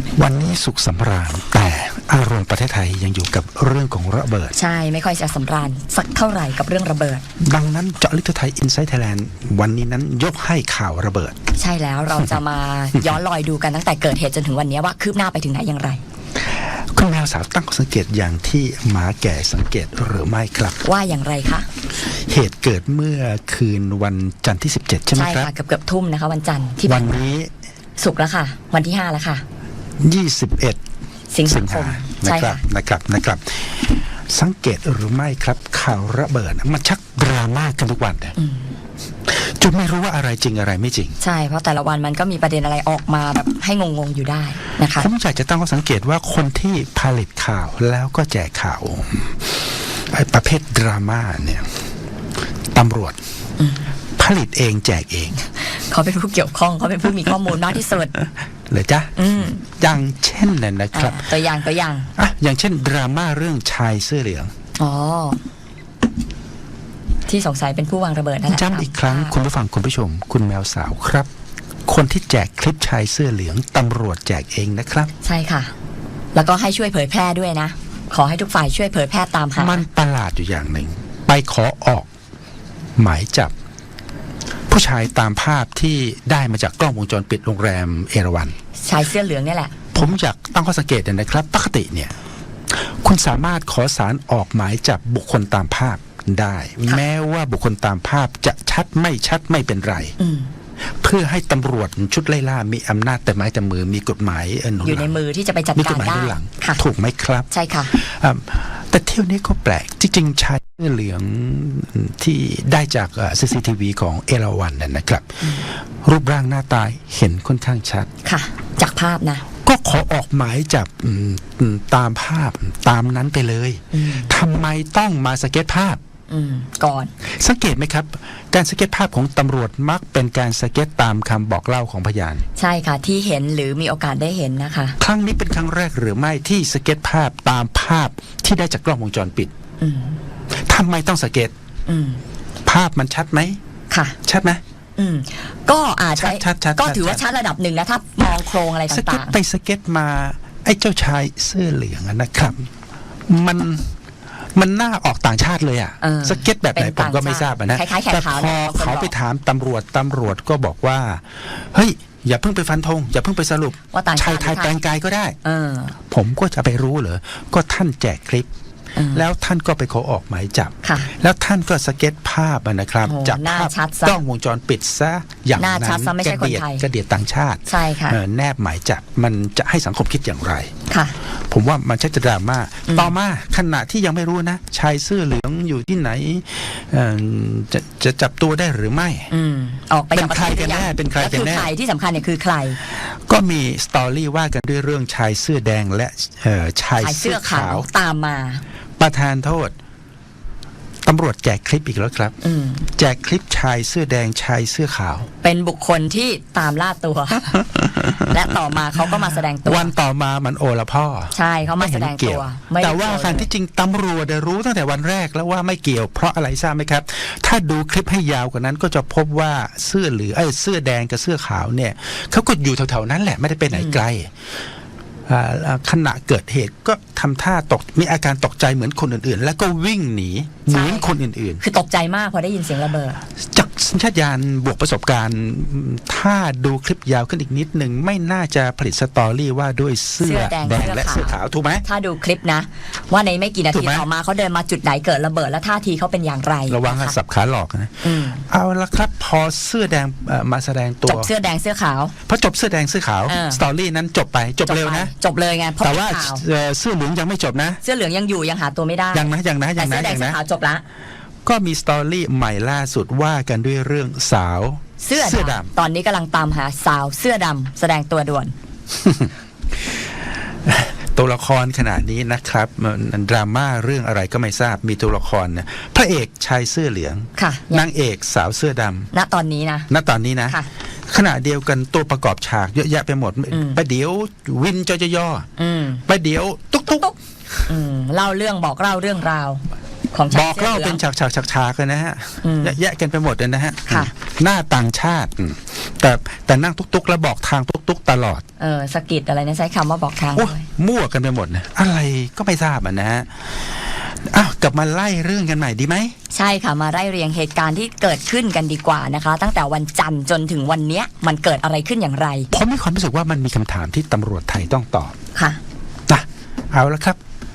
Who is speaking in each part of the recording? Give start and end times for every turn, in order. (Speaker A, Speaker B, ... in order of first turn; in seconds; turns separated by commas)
Speaker A: 0.1-4.5, Speaker B: 4.5-7.2, Speaker A: 7.4-11.3, Speaker B: 11.6-16.0, Speaker A: 16.4-20.8, Speaker B: 20.8-21.7, Speaker A: 21.9-25.5, Speaker B: 25.1-27.1, Speaker A: 26.8-27.5, Speaker B: 28.0-29.4, Speaker A: 30.0-30.8, Speaker B: 31.3-32.6, Speaker A: 31.4-38.3, Speaker B: 38.4-38.8, Speaker A: 39.2-41.2, Speaker B: 41.2-45.1, Speaker A: 44.9-51.7, Speaker A: 52.7-53.2, Speaker B: 53.6-53.9, Speaker A: 54.2-55.4, Speaker B: 55.5-58.1, Speaker A: 58.7-61.3, Speaker B: 59.1-59.6, Speaker B: 60.9-62.1, Speaker A: 62.1-64.5, Speaker B: 64.8-65.4, Speaker B: 67.2-69.3, Speaker A: 68.5-71.3, Speaker A: 71.9-75.1, Speaker B: 75.2-75.7, Speaker B: 76.3-79.8, Speaker A: 79.5-82.1, Speaker A: 83.0-83.5, Speaker A: 84.7-88.5, Speaker B: 88.8-89.9, Speaker A: 89.9-92.1, Speaker A: 92.7-100.1, Speaker B: 100.2-100.5, Speaker A: 100.8-105.2, Speaker B: 104.8-106.8, Speaker A: 105.7-118.1, Speaker B: 107.5-107.9, Speaker B: 115.4-115.7, Speaker B: 118.2-119.4, Speaker A: 119.6-126.0, Speaker B: 123.9-124.3, Speaker B: 126.3-127.1, Speaker A: 127.2-132.4, Speaker B: 132.6-135.0, Speaker A: 135.0-139.5, Speaker B: 139.8-140.2, Speaker A: 140.5-141.5, Speaker B: 141.9-142.2, Speaker A: 142.6-143.6, Speaker B: 143.9-144.2, Speaker A: 144.2-144.6, Speaker B: 145.0-149.3, Speaker A: 146.2-147.2, Speaker A: 148.9-152.7, Speaker A: 153.3-153.9, Speaker A: 154.5-165.4, Speaker B: 156.0-159.1, Speaker B: 163.9-164.7, Speaker B: 165.4-165.9, Speaker A: 166.1-168.5, Speaker B: 168.9-169.2, Speaker A: 169.1-180.7, Speaker B: 170.8-171.1, Speaker B: 173.0-174.2, Speaker B: 175.6-176.9, Speaker B: 177.7-178.2, Speaker B: 180.9-181.2, Speaker A: 181.5-189.3, Speaker B: 182.9-183.1, Speaker B: 189.3-192.8, Speaker A: 190.1-191.7, Speaker A: 192.9-197.9, Speaker B: 197.0-198.6, Speaker A: 199.0-199.7, Speaker A: 201.0-202.3, Speaker B: 202.4-202.9, Speaker A: 203.0-205.3, Speaker B: 205.4-209.9, Speaker A: 207.9-208.3, Speaker A: 209.1-224.3, Speaker B: 211.3-213.5, Speaker B: 223.7-224.0, Speaker A: 225.3-231.6, Speaker B: 230.7-233.2, Speaker A: 233.5-241.8, Speaker B: 240.2-247.2, Speaker A: 243.7-244.1, Speaker A: 246.7-251.3, Speaker B: 248.0-248.4, Speaker B: 251.0-252.1, Speaker A: 252.2-255.1, Speaker B: 253.2-253.6, Speaker B: 254.6-256.4, Speaker A: 255.8-257.8, Speaker B: 257.8-260.8, Speaker A: 259.1-260.4, Speaker A: 261.4-265.7, Speaker B: 265.0-268.5, Speaker A: 268.9-269.3, Speaker A: 269.8-270.1, Speaker A: 270.6-279.1, Speaker B: 277.4-277.9, Speaker B: 279.1-279.9, Speaker A: 279.9-285.5, Speaker B: 283.5-283.8, Speaker B: 285.6-286.0, Speaker A: 286.1-287.7, Speaker B: 287.7-291.0, Speaker A: 290.3-298.4, Speaker B: 292.4-292.8, Speaker B: 298.6-300.6, Speaker A: 300.3-306.1, Speaker B: 306.3-312.5, Speaker A: 312.5-315.1, Speaker B: 315.3-315.6, Speaker A: 316.1-317.2